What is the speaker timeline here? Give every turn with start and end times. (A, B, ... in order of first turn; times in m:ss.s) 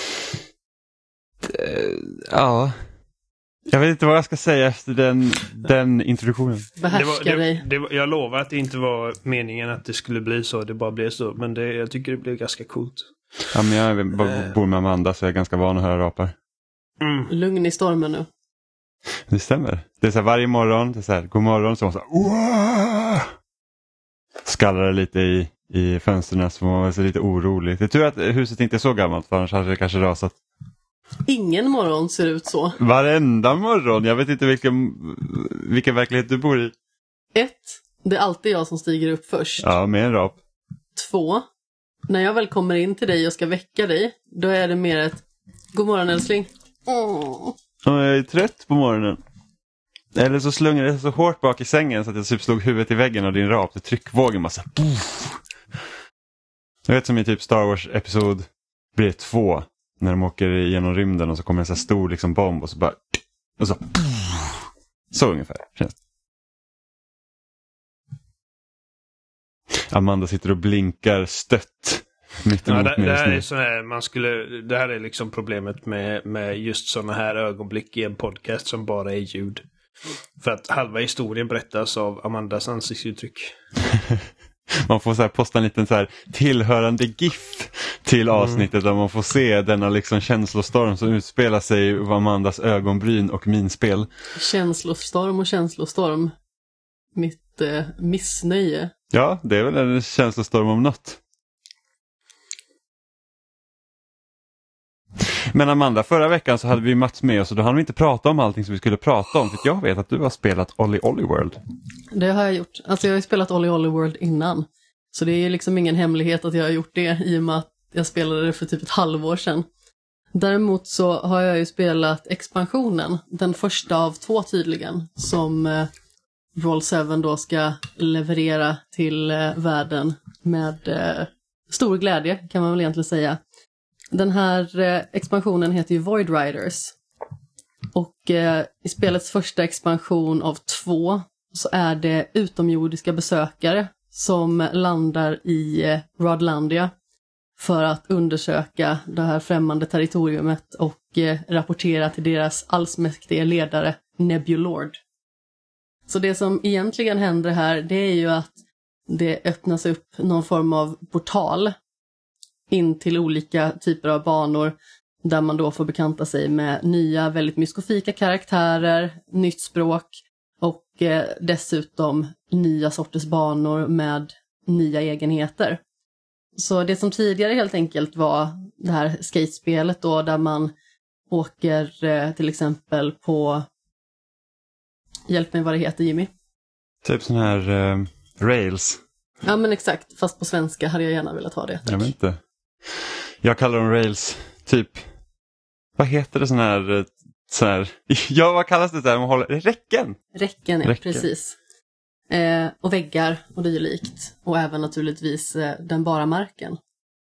0:01.4-0:02.8 A
0:03.7-0:06.7 A
0:06.8-0:07.6 B
0:06.9-0:13.1 C
0:13.5-0:16.3 A
0:17.0-0:17.3 C
0:17.3-0:18.3 B
0:19.3-0:23.3 A
0:24.4-0:30.4 A
0:31.3-0:32.8 B
0:32.8-0:36.7 A
0:37.4-0:39.7 B
0:39.6-0:40.4 A
0:41.0-0:41.5 B
0:42.1-0:45.2 B
0:45.7-0:47.6 B
0:47.8-0:49.2 A
0:50.1-0:55.4 A
0:56.9-1:03.0 A
1:03.6-1:06.0 A
1:09.9-1:13.4 A
1:12.7-1:19.7 C
1:20.4-1:23.6 C
1:23.9-1:24.3 A
1:24.8-1:34.1 A
1:28.4-1:28.6 C
1:34.4-1:36.3 B
1:37.2-1:38.9 B
1:39.1-1:41.2 A
1:45.2-1:51.6 A
1:52.1-1:59.7 B
2:00.4-2:05.9 B
2:06.6-2:13.4 B
2:14.1-2:17.0 B
2:17.9-2:26.9 B
2:27.6-2:35.0 B
2:36.1-2:38.6 B
2:39.1-2:41.7 B
2:42.7-2:55.8 B
2:56.6-3:00.7 B
3:01.3-3:03.7 B
3:05.3-3:06.3 B
3:07.0-3:09.0 A
3:09.4-3:12.1 B
3:11.9-3:15.0 A
3:16.0-3:20.2 A
3:20.4-3:21.6 B
3:20.8-3:21.2 A
3:22.3-3:26.8 B